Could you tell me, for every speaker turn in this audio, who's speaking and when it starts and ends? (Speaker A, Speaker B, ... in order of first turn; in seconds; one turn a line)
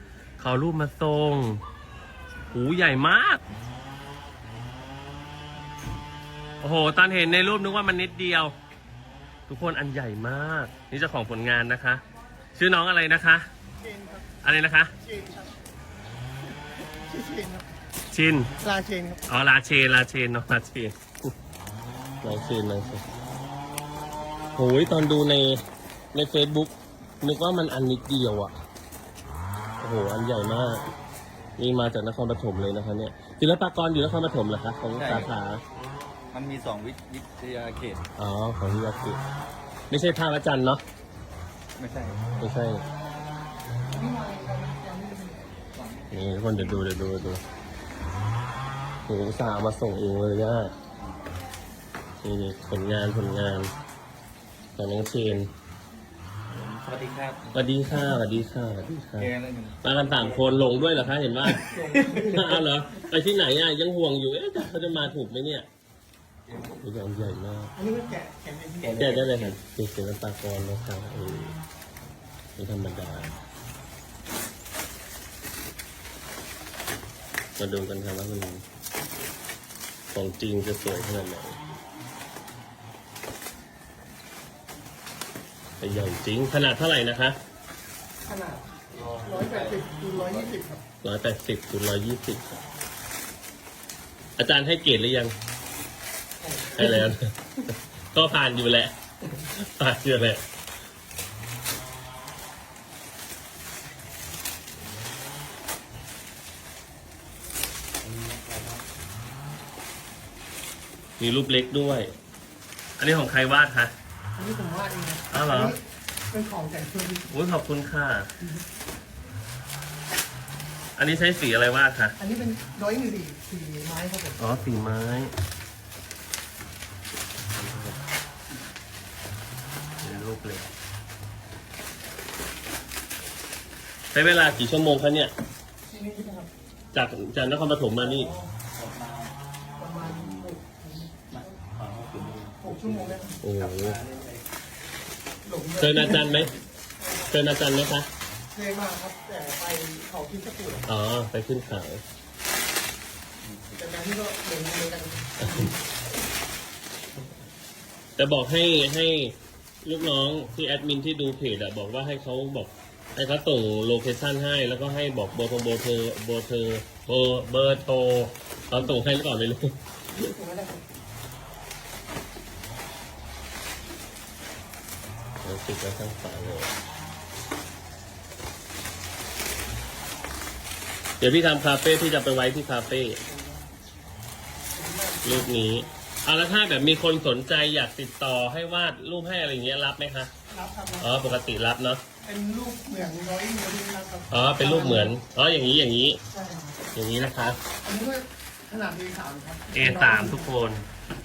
Speaker A: 0.4-1.6
Speaker A: 2.5-3.4
Speaker A: 6.6-8.5
Speaker A: 9.5-12.0
Speaker A: 12.5-13.5
Speaker B: 13.8-14.3
Speaker A: 14.4-14.9
Speaker B: 15.0-15.6
Speaker B: 16.8-17.7
Speaker A: 18.1-18.5
Speaker B: 18.6-19.2
Speaker A: 19.3-20.9
Speaker A: 22.2-23.0
Speaker A: 24.5-25.6
Speaker A: 26.1-28.5
Speaker A: 29.8-30.8
Speaker A: 31.6-35.6
Speaker C: 34.9-35.3
Speaker C: 36.3-38.0
Speaker A: 38.2-39.2
Speaker A: 39.9-40.8
Speaker C: 41.8-42.4
Speaker A: 42.4-42.8
Speaker B: 43.9-45.5
Speaker C: 45.7-46.8
Speaker A: 46.1-47.4
Speaker A: 49.0-50.7
Speaker A: 52.2-53.7
Speaker A: 54.8-55.5
Speaker C: 56.5-57.5
Speaker A: 57.5-59.3
Speaker C: 59.2-60.5
Speaker A: 59.8-65.7
Speaker C: 61.4-62.4
Speaker B: 61.9-62.6
Speaker C: 66.5-66.7
Speaker A: 66.8-67.7
Speaker B: 67.8-69.2
Speaker C: 68.8-69.6
Speaker A: 69.0-71.5
Speaker A: 72.5-73.3
Speaker A: 77.6-78.6
Speaker A: 80.1-81.6
Speaker A: 85.8-87.4
Speaker B: 88.2-90.8
Speaker C: 88.9-90.5
Speaker A: 91.0-92.6
Speaker A: 94.4-95.3
Speaker B: 96.4-97.1
Speaker A: 96.7-100.4
Speaker C: 108.0-108.9
Speaker A: 111.2-112.1
Speaker A: 113.0-113.9
Speaker B: 114.4-117.3
Speaker A: 115.3-115.7
Speaker A: 117.3-118.3
Speaker A: 121.0-122.2
Speaker B: 122.2-124.6
Speaker A: 124.4-125.3
Speaker A: 127.5-128.0
Speaker A: 130.0-130.7
Speaker A: 134.1-135.3
Speaker B: 135.8-136.5
Speaker A: 136.9-138.3
Speaker B: 138.0-138.5
Speaker C: 138.7-139.3
Speaker B: 139.8-141.6
Speaker C: 140.0-140.5
Speaker C: 141.3-144.4
Speaker B: 142.6-143.4
Speaker A: 143.4-144.0
Speaker B: 145.4-147.3
Speaker A: 145.8-146.5
Speaker A: 147.3-148.1
Speaker B: 148.5-150.9
Speaker A: 150.9-152.0
Speaker C: 153.5-153.7
Speaker B: 153.8-155.9
Speaker A: 158.2-169.8
Speaker B: 170.1-170.9
Speaker A: 175.4-176.7
Speaker A: 181.2-183.2
Speaker B: 183.2-183.7
Speaker B: 184.7-185.6
Speaker A: 185.2-190.3
Speaker B: 190.5-191.2
Speaker A: 191.0-192.0
Speaker B: 192.2-195.2
Speaker A: 194.3-196.2
Speaker B: 196.3-196.8
Speaker A: 196.9-197.6
Speaker B: 197.8-200.5
Speaker A: 199.7-200.8